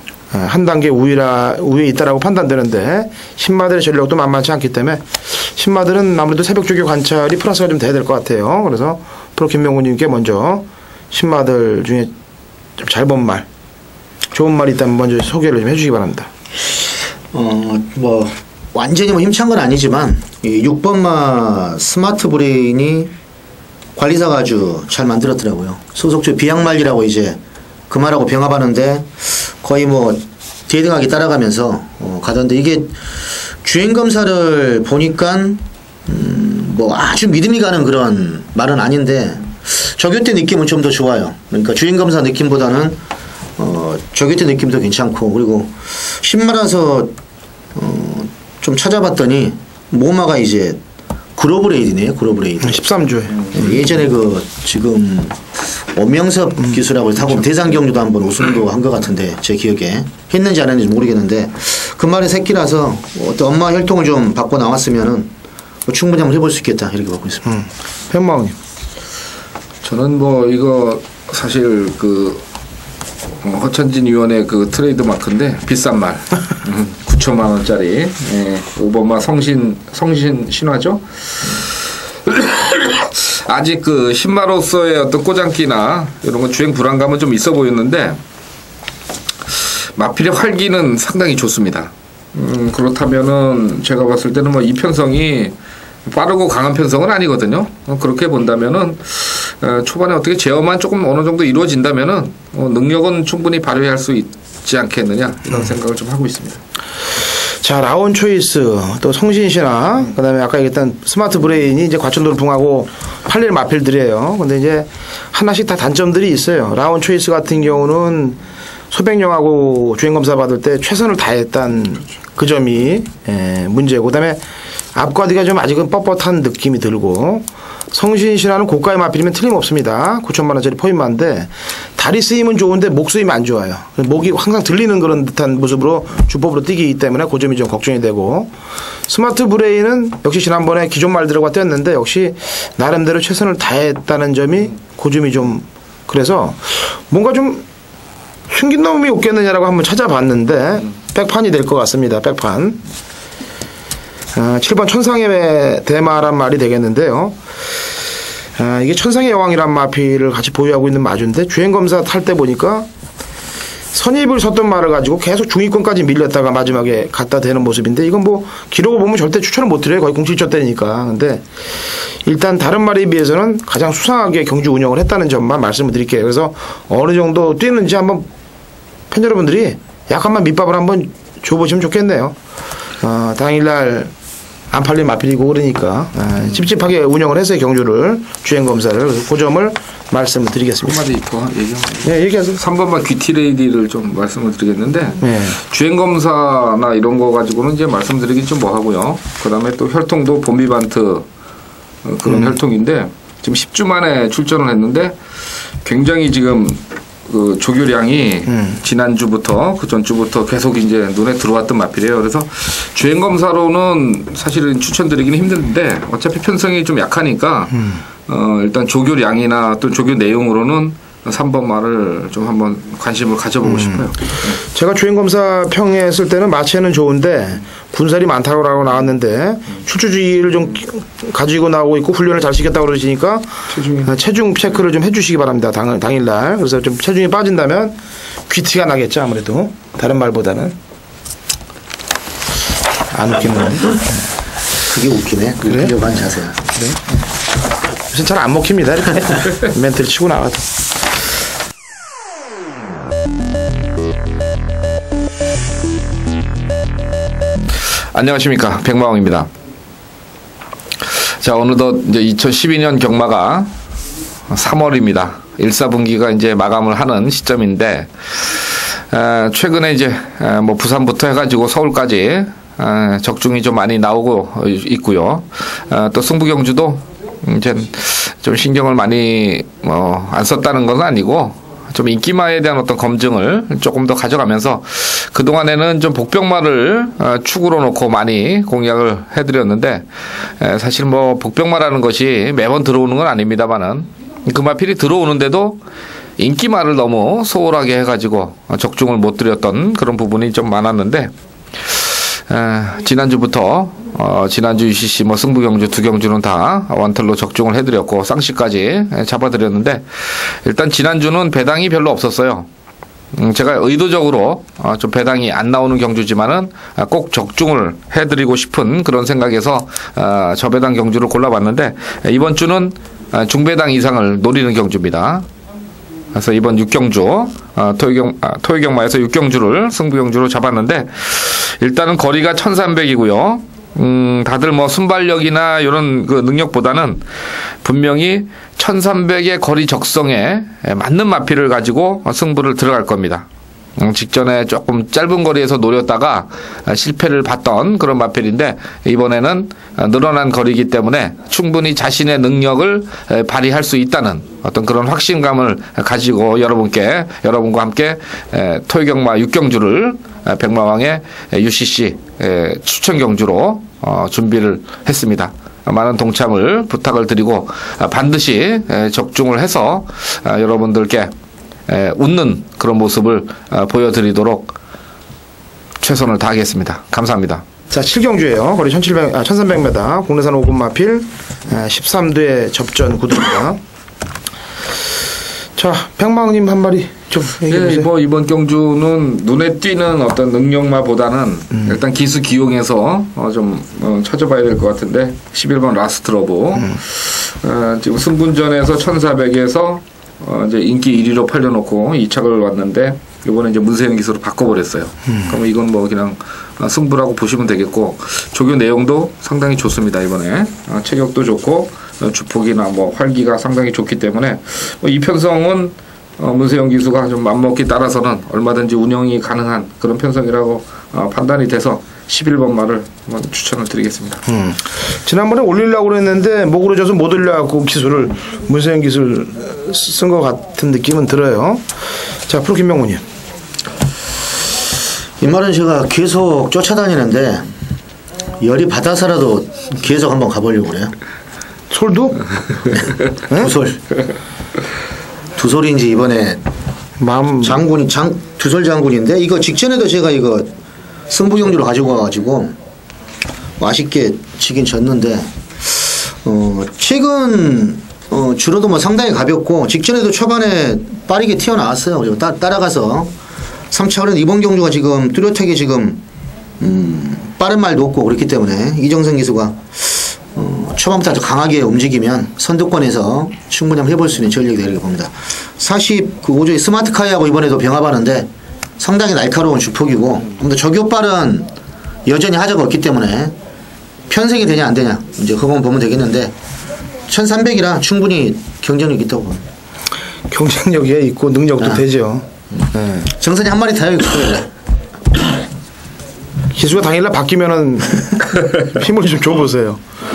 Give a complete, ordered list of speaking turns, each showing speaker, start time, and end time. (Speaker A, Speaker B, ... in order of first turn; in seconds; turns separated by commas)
Speaker A: 0.3-12.1, Speaker A: 12.8-13.5, Speaker A: 14.3-16.3, Speaker B: 17.3-23.1, Speaker B: 23.9-33.0, Speaker B: 33.6-43.0, Speaker B: 43.6-47.1, Speaker B: 47.7-50.8, Speaker B: 51.4-52.8, Speaker A: 52.6-53.5, Speaker B: 53.5-65.3, Speaker B: 65.8-67.5, Speaker A: 67.5-68.5, Speaker C: 69.8-72.4, Speaker C: 73.4-81.6, Speaker C: 82.2-88.2, Speaker C: 89.6-95.5, Speaker C: 96.0-106.6, Speaker A: 107.6-118.4, Speaker A: 118.9-124.4, Speaker A: 124.9-138.5, Speaker A: 139.1-147.7, Speaker A: 148.5-152.8, Speaker A: 154.3-157.4, Speaker A: 158.6-162.9, Speaker A: 163.9-171.4, Speaker A: 172.2-178.3, Speaker A: 179.1-182.3, Speaker A: 183.0-184.1, Speaker A: 184.7-191.0, Speaker C: 190.8-201.3, Speaker A: 192.0-192.6, Speaker A: 195.2-195.6, Speaker C: 202.0-205.2, Speaker A: 202.3-202.6, Speaker C: 205.8-224.6, Speaker A: 223.6-224.1, Speaker A: 224.6-240.8, Speaker C: 233.7-234.1, Speaker A: 243.1-244.2, Speaker B: 244.9-246.6, Speaker A: 245.7-246.2, Speaker A: 246.7-247.1, Speaker A: 248.1-250.7, Speaker C: 258.1-259.5, Speaker C: 261.2-263.7, Speaker C: 264.5-290.1, Speaker C: 290.6-295.8, Speaker C: 296.4-301.3, Speaker C: 301.8-312.7, Speaker C: 313.3-325.4, Speaker C: 326.3-337.2, Speaker C: 337.8-343.4, Speaker C: 344.0-371.3, Speaker C: 371.9-374.7, Speaker C: 376.0-377.6, Speaker A: 377.9-383.8, Speaker A: 385.8-388.1, Speaker C: 387.6-424.4, Speaker A: 424.5-431.8, Speaker A: 432.5-433.2, Speaker B: 435.4-437.7, Speaker B: 438.6-441.1, Speaker A: 441.9-442.8, Speaker B: 442.9-444.2, Speaker B: 445.6-446.6, Speaker A: 447.2-447.8, Speaker B: 447.6-450.7, Speaker B: 451.3-452.8, Speaker B: 453.8-463.3, Speaker B: 463.9-466.2, Speaker B: 466.8-481.7, Speaker B: 482.2-483.5, Speaker B: 484.3-486.5, Speaker B: 487.3-489.6, Speaker A: 490.5-493.3, Speaker B: 493.3-494.7, Speaker A: 496.7-500.0